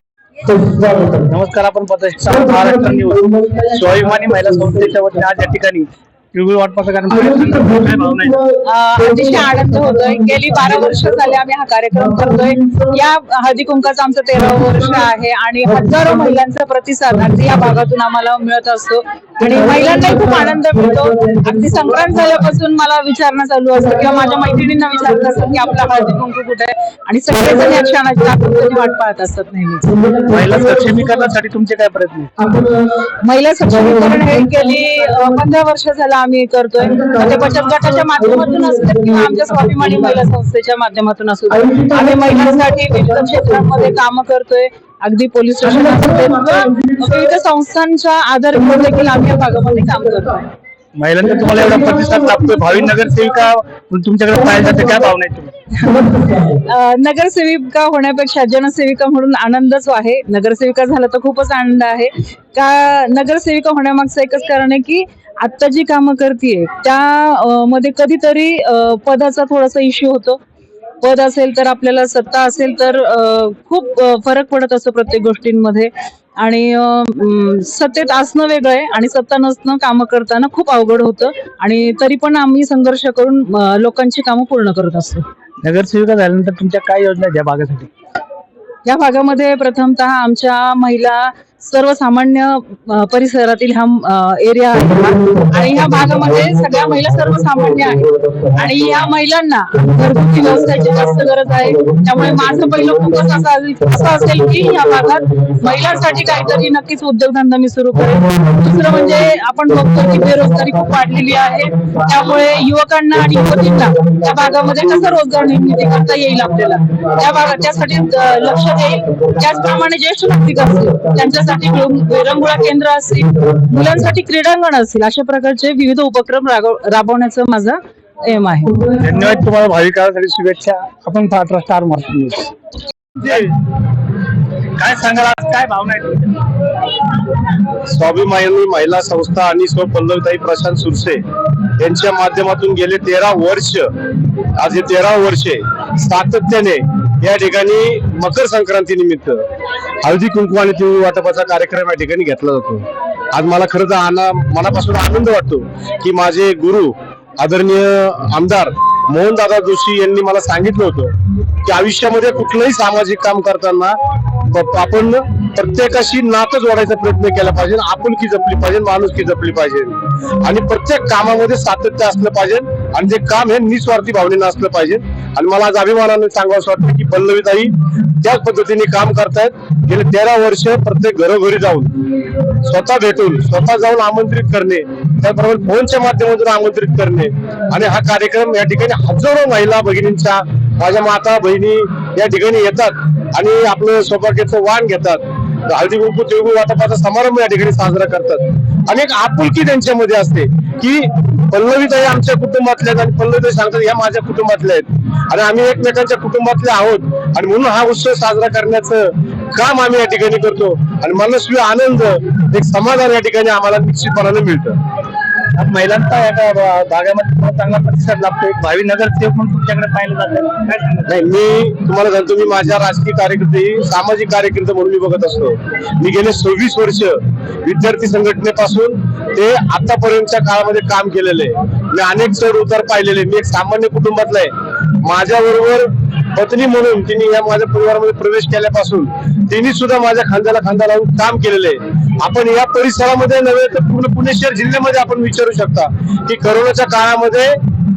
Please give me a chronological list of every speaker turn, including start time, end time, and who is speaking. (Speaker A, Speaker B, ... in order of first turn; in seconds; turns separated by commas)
Speaker A: 0.5-8.4, Speaker B: 8.5-30.1, Speaker A: 30.2-32.3, Speaker B: 32.5-50.5, Speaker A: 51.0-55.5, Speaker B: 55.8-70.4, Speaker B: 71.0-85.2, Speaker A: 85.6-87.9, Speaker B: 88.8-128.9, Speaker A: 128.9-132.5, Speaker A: 133.2-133.7, Speaker A: 134.8-136.4, Speaker C: 137.8-141.2, Speaker C: 141.8-143.9, Speaker C: 144.5-149.4, Speaker C: 150.0-161.1, Speaker C: 161.6-182.0, Speaker C: 182.6-214.8, Speaker A: 215.5-221.1, Speaker C: 221.1-247.6